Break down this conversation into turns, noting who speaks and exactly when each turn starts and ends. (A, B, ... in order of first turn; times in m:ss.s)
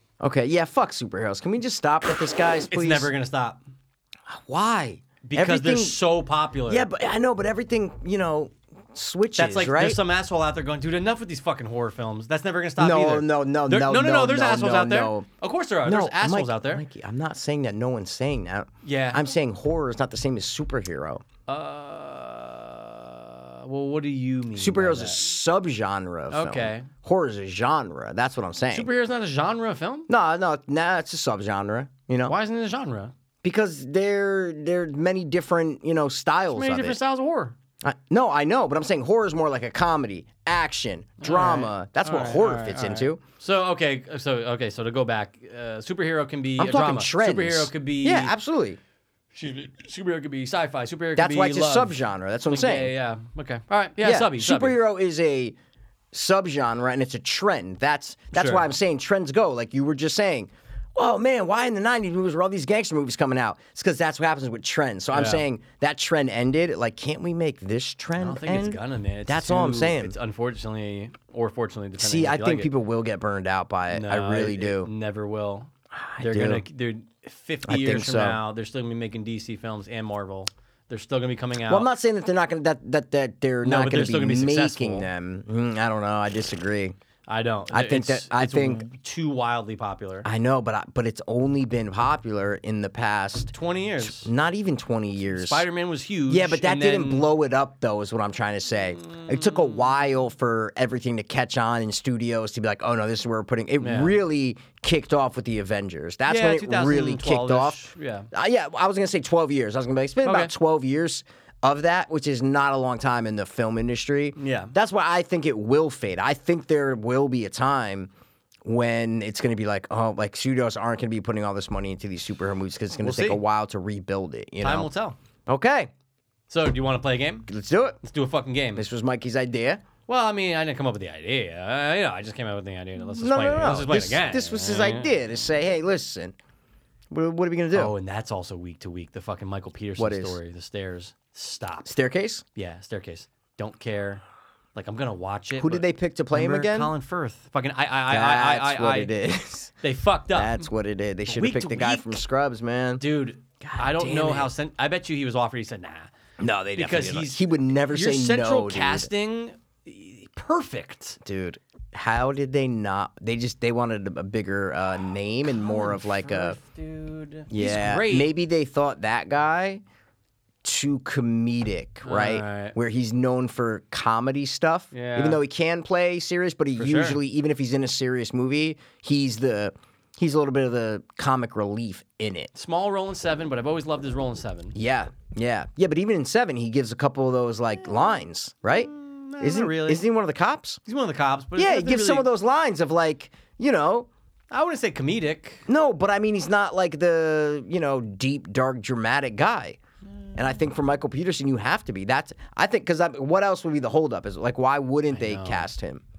0:00.2-0:03.1 A
0:02.7-0:03.6 B
0:04.3-0:06.0 A
0:05.2-0:06.9 B
0:06.7-0:10.0 A
0:09.4-0:16.8 B
0:12.8-0:15.3 A
0:15.8-0:21.2 A
0:18.8-0:19.3 B
0:21.5-0:25.3 B
0:24.6-0:28.9 A
0:26.3-0:26.9 B
0:28.7-0:30.1 B
0:30.1-0:32.3 A
0:32.2-0:33.1 B
0:33.4-0:37.0 A
0:36.5-0:37.5 B
0:37.8-0:43.2 A
0:41.2-0:48.3 B
0:46.6-0:48.8 A
0:49.3-0:52.0 B
0:51.2-0:52.9 A
0:52.5-0:54.8 B
0:54.0-0:55.6 A
0:56.1-1:10.1 A
0:58.3-0:58.6 B
1:05.1-1:05.4 B
1:08.2-1:12.7 B
1:12.0-1:14.9 A
1:13.9-1:21.9 B
1:15.9-1:16.6 A
1:17.6-1:18.4 A
1:21.7-1:26.9 A
1:23.6-1:25.1 B
1:27.3-1:30.3 B
1:27.7-1:28.8 A
1:30.2-1:35.6 A
1:33.5-1:34.3 B
1:35.3-1:37.3 B
1:36.3-1:58.1 A
1:39.1-1:39.5 B
1:43.8-1:44.2 B
1:46.3-1:48.3 B
1:50.2-1:50.5 B
1:54.4-1:54.7 B
1:58.6-2:04.9 A
2:03.0-2:03.4 B
2:04.6-2:05.2 B
2:05.5-2:05.9 A
2:06.5-2:07.5 B
2:07.5-2:08.0 A
2:08.0-2:08.8 B
2:08.8-2:09.8 A
2:10.1-2:15.2 B
2:13.0-2:16.3 A
2:17.1-2:17.9 A
2:17.7-2:21.9 B
2:20.0-2:20.4 A
2:21.8-2:22.4 A
2:22.6-2:24.2 B
2:24.7-2:29.1 B
2:25.6-2:26.9 A
2:28.1-2:29.7 A
2:29.8-2:30.7 B
2:30.3-2:33.0 A
2:31.3-2:32.2 B
2:33.0-2:36.1 B
2:33.6-2:34.5 A
2:36.4-2:39.1 A
2:36.8-2:41.2 B
2:41.2-2:46.6 A
2:45.5-2:48.3 B
2:47.5-2:49.8 A
2:50.6-3:02.5 A
2:52.0-2:52.8 B
2:54.9-2:55.4 B
2:56.8-2:57.2 B
3:02.5-3:04.8 B
3:04.7-3:10.8 A
3:07.8-3:08.2 B
3:08.7-3:10.0 B
3:10.8-3:12.3 B
3:11.6-3:14.1 A
3:14.5-3:15.7 B
3:15.7-3:19.8 A
3:20.3-3:26.0 A
3:25.1-3:25.7 B